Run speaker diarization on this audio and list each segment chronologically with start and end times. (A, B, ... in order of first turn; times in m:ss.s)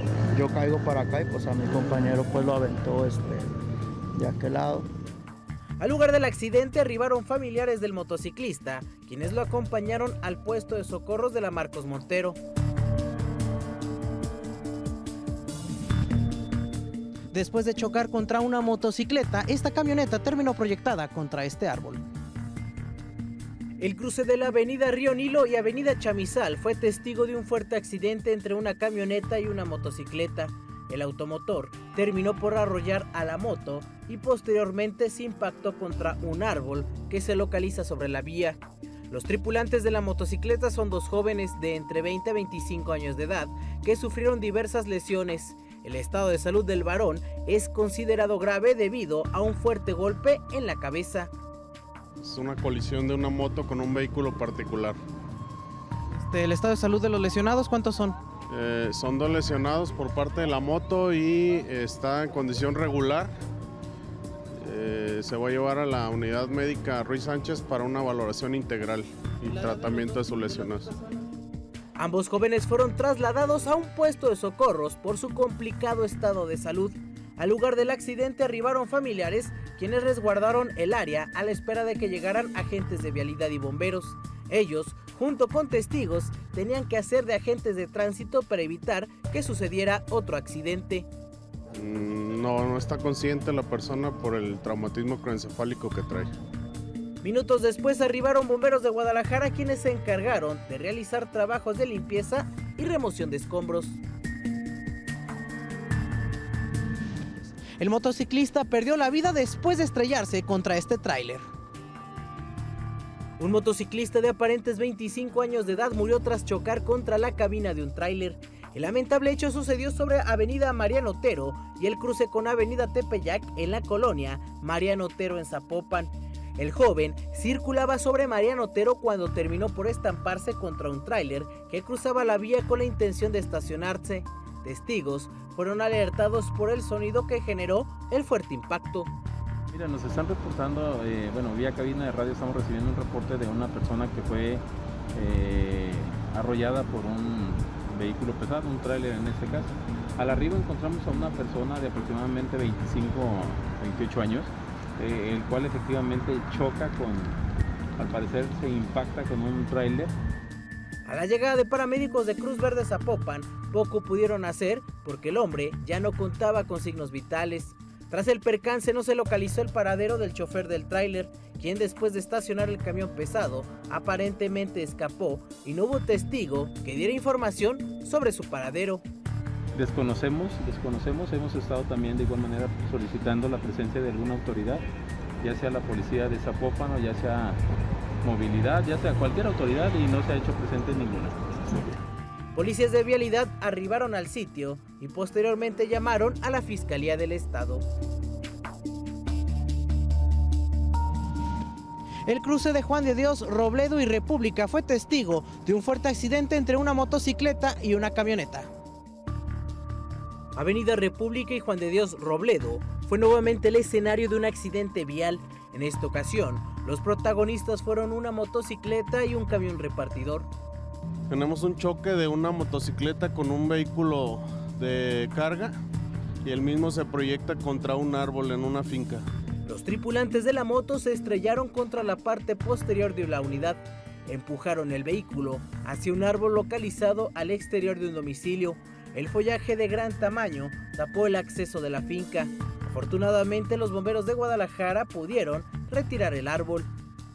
0:00.3-0:03.5 A
0:04.2-0:04.9 A
0:05.8-0:12.4 B
0:17.3-0:22.0 B
0:23.8-0:51.3 B
0:52.2-0:55.0 C
0:56.1-0:58.2 B
0:58.5-1:03.3 C
1:04.6-1:10.9 C
1:12.0-1:31.1 B
1:31.8-1:36.3 C
1:37.2-1:44.0 B
1:47.8-1:51.5 B
1:53.4-2:19.1 B
2:19.7-2:37.4 D
2:38.0-2:40.1 D
2:41.0-2:59.0 B
2:59.8-3:04.9 D
3:05.4-3:07.6 D
3:08.2-3:11.9 D
3:12.5-3:17.9 B
3:22.3-3:28.7 B
3:30.6-3:40.5 B
3:41.3-3:45.8 C
3:46.4-3:49.3 C
3:49.6-4:06.9 B